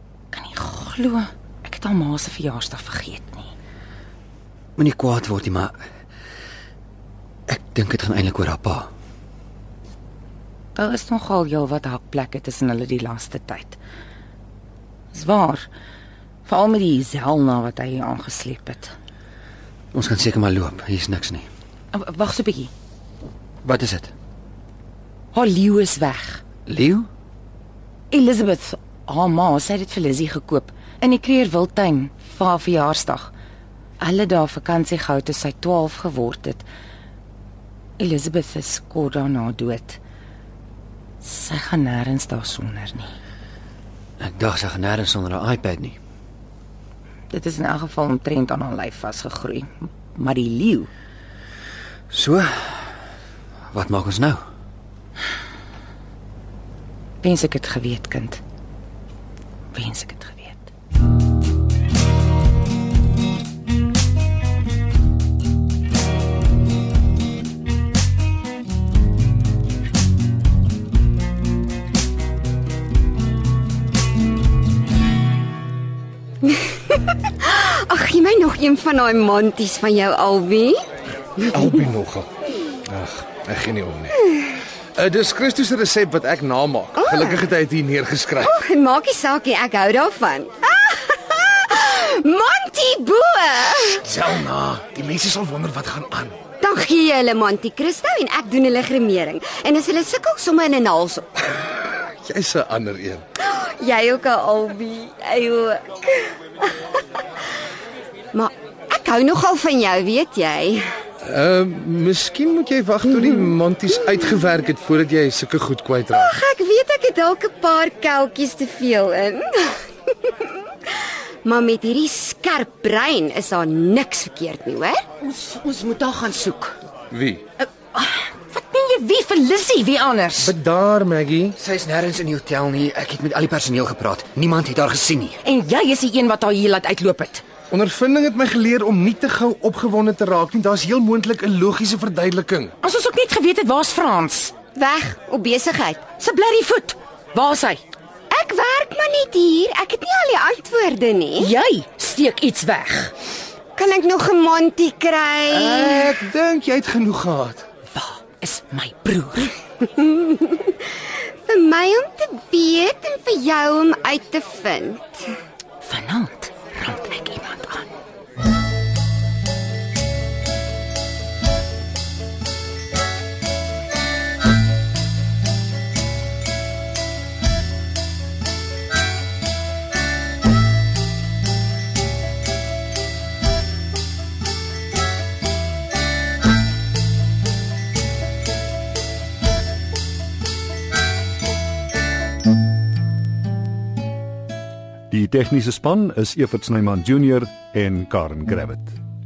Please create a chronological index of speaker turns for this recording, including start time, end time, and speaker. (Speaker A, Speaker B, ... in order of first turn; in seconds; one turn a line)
Speaker A: 0.3-3.5
Speaker B: 4.8-5.8
Speaker B: 7.5-8.9
Speaker A: 10.7-13.8
Speaker A: 15.1-15.7
Speaker A: 16.4-18.9
Speaker B: 19.9-21.5
Speaker A: 21.9-22.7
Speaker B: 23.6-24.1
Speaker A: 25.3-26.4
Speaker B: 26.7-27.1
Speaker A: 28.1-33.3
Speaker A: 34.0-36.6
Speaker A: 38.0-40.0
Speaker A: 41.2-43.1
Speaker B: 44.2-46.0
Speaker A: 47.3-50.9
Speaker B: 52.1-52.9
Speaker B: 53.7-54.4
Speaker A: 57.2-58.4
Speaker A: 59.7-60.7
Speaker C: 76.4-80.8
Speaker C: 81.4-81.8
Speaker D: 81.5-82.3
Speaker D: 82.9-84.3
Speaker D: 84.9-88.5
Speaker C: 87.0-87.5
Speaker C: 88.4-94.1
Speaker D: 94.0-96.4
Speaker C: 96.6-101.5
Speaker D: 101.9-103.2
Speaker C: 103.4-107.2
Speaker C: 108.3-110.9
Speaker D: 111.2-116.3
Speaker C: 116.1-125.0
Speaker A: 125.2-126.8
Speaker D: 127.1-127.4
Speaker A: 127.6-130.5
Speaker D: 130.4-131.6
Speaker B: 131.6-135.4
Speaker A: 135.4-137.4
Speaker D: 137.7-142.7
Speaker A: 142.8-144.5
Speaker C: 144.7-146.0
Speaker A: 146.2-147.8
Speaker C: 148.3-151.5
Speaker A: 151.4-153.1
Speaker C: 153.8-156.1
Speaker D: 155.5-157.7
Speaker A: 157.9-159.5
Speaker C: 159.9-165.3
Speaker A: 165.8-167.9
Speaker E: 195.1-199.0